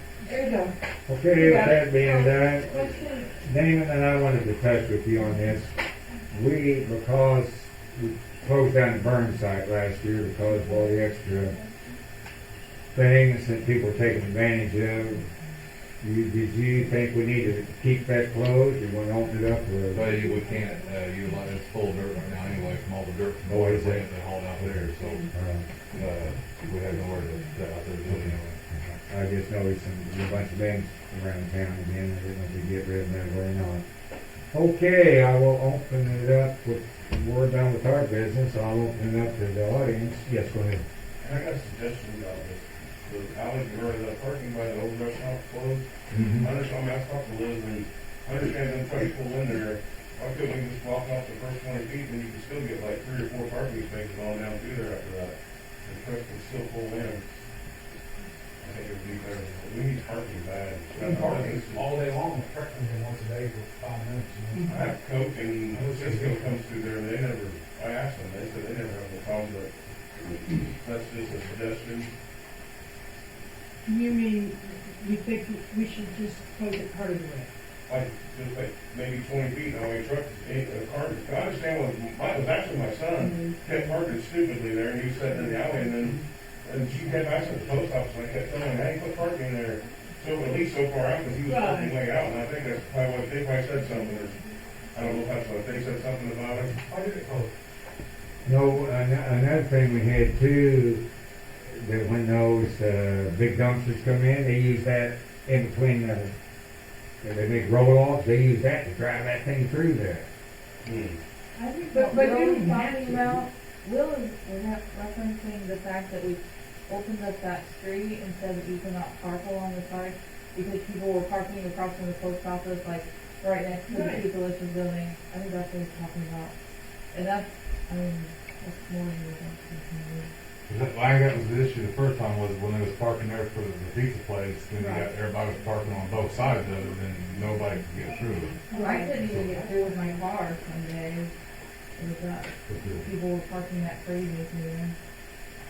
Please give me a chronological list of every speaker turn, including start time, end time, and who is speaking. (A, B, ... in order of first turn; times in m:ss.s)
0:00.3-0:00.7 A
0:01.1-0:05.8 B
0:01.3-0:03.2 A
0:06.3-0:11.6 B
0:12.9-0:15.2 B
0:16.0-0:20.2 B
0:19.9-0:25.3 C
0:23.4-0:24.0 B
0:24.6-0:25.6 B
0:25.9-0:28.6 C
0:28.1-0:33.8 B
0:34.5-0:40.8 B
0:41.2-0:45.9 D
0:46.1-0:46.5 C
0:46.4-0:57.2 D
0:58.6-1:01.9 D
1:01.2-1:04.7 E
1:04.7-1:12.1 D
1:05.8-1:06.4 E
1:13.9-1:17.5 A
1:17.9-1:34.4 D
1:23.3-1:23.8 F
1:31.5-1:32.0 A
1:34.9-1:36.8 D
1:36.8-1:37.5 E
1:38.4-1:41.0 B
1:41.6-1:46.3 B
1:47.2-1:50.3 B
1:50.8-1:51.2 D
1:51.6-1:53.4 A
1:51.9-2:06.5 F
2:03.9-2:04.3 A
2:07.1-2:10.3 F
2:10.7-2:18.7 C
2:14.8-2:15.1 A
2:18.7-2:19.2 A
2:18.7-2:21.3 F
2:19.2-2:19.6 C
2:22.0-2:25.0 F
2:22.7-2:23.1 C